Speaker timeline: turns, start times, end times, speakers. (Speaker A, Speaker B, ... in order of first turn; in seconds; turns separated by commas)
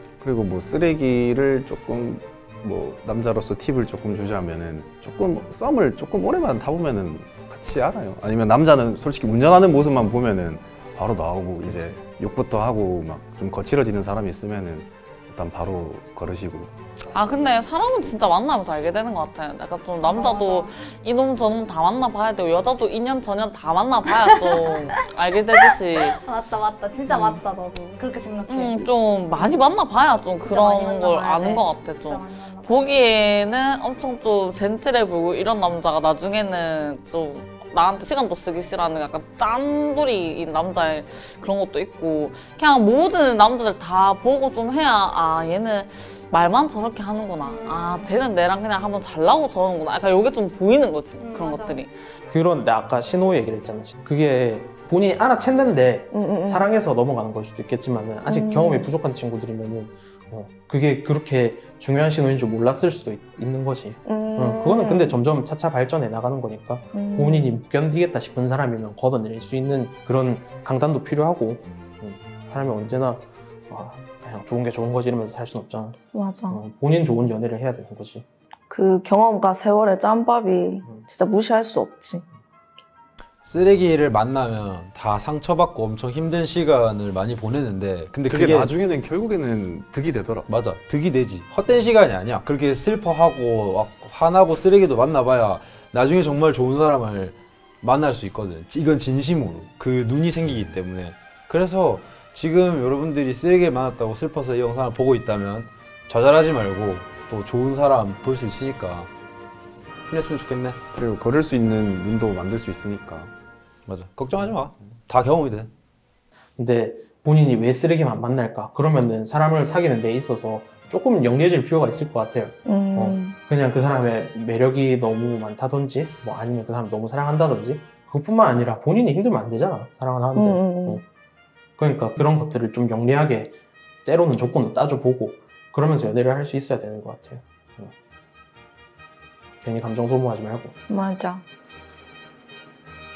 Speaker A: 0.2-16.7, Speaker B: 11.6-12.0, Speaker C: 17.1-26.2, Speaker D: 20.0-20.7, Speaker D: 24.2-24.8, Speaker D: 26.1-29.7, Speaker C: 27.1-27.4, Speaker C: 28.5-51.9, Speaker D: 30.4-33.0, Speaker D: 47.4-48.2, Speaker D: 51.2-51.8, Speaker E: 52.3-78.2, Speaker F: 56.1-56.7, Speaker F: 58.3-58.9, Speaker F: 64.0-65.2, Speaker F: 66.9-67.5, Speaker F: 76.1-76.6, Speaker F: 78.7-82.2, Speaker B: 83.4-88.8, Speaker A: 88.3-90.5, Speaker B: 90.5-109.1, Speaker B: 110.1-110.8, Speaker A: 110.9-113.3, Speaker B: 113.8-115.7, Speaker E: 116.6-131.0, Speaker F: 122.7-123.3, Speaker F: 130.3-131.0, Speaker E: 131.8-137.9, Speaker E: 139.6-140.8, Speaker F: 140.9-141.4